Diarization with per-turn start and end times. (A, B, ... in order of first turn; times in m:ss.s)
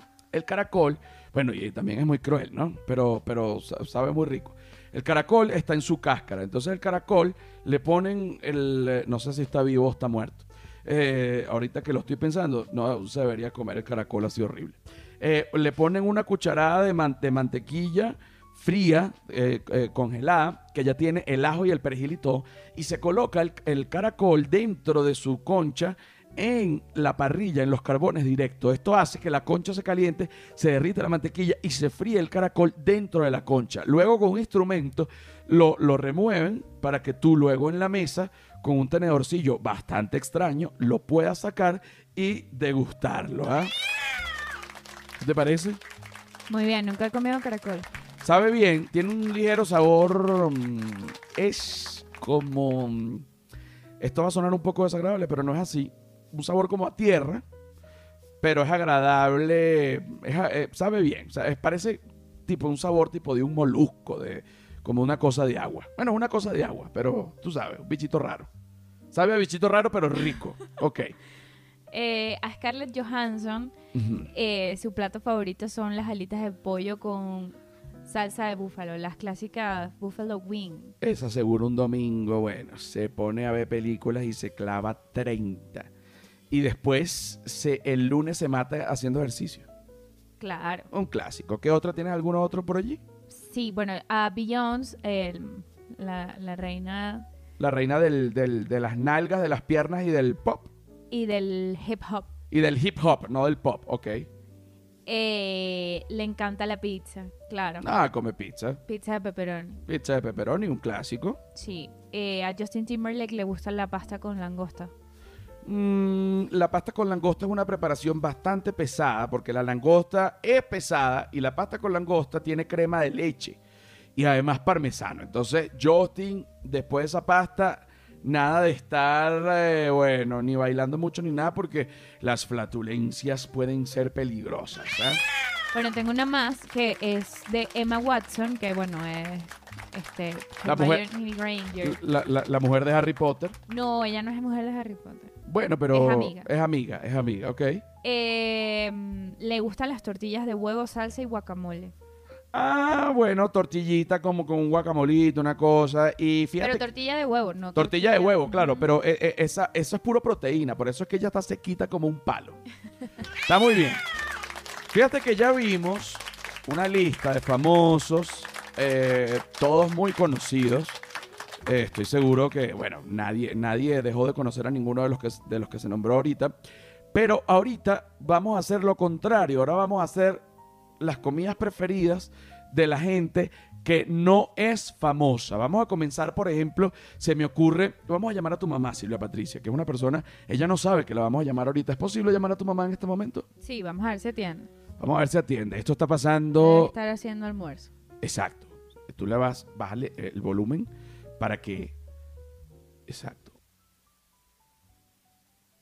0:00.3-0:43.7 A
0:45.2-0:45.8 A
0:46.5-0:47.9 B
0:48.2-0:53.3 A
0:54.0-0:57.4 A
0:58.4-1:08.5 A
1:09.1-1:11.2 A
1:11.9-1:13.8 B
1:13.9-1:14.3 A
1:14.3-1:20.9 B
1:21.0-1:25.9 A
1:26.5-1:29.7 A
1:30.4-1:30.9 B
1:30.9-1:33.0 A
1:33.3-1:37.3 B
1:37.6-1:40.7 A
1:41.1-1:42.3 B
1:42.5-1:44.3 A
1:45.1-1:47.9 B
1:47.8-1:48.8 A
1:48.9-1:49.8 B
1:49.9-1:51.4 A
1:51.6-1:54.9 B
1:55.6-2:03.6 A
2:04.2-2:15.2 A
2:15.7-2:22.0 B
2:20.6-2:21.0 A
2:21.8-2:23.6 A
2:23.7-2:25.3 B
2:25.5-2:27.8 A
2:25.9-2:26.5 B
2:28.0-2:31.9 B
2:32.5-2:36.8 A
2:36.6-2:38.9 B
2:37.8-2:42.6 A
2:43.5-2:44.0 A
2:44.9-2:51.0 A
2:51.7-2:56.5 A
2:57.1-3:00.4 A
3:01.0-3:13.5 A
3:13.6-3:14.7 B
3:15.0-3:16.9 A
3:16.6-3:17.9 B
3:18.2-3:22.0 A
3:23.1-3:23.5 A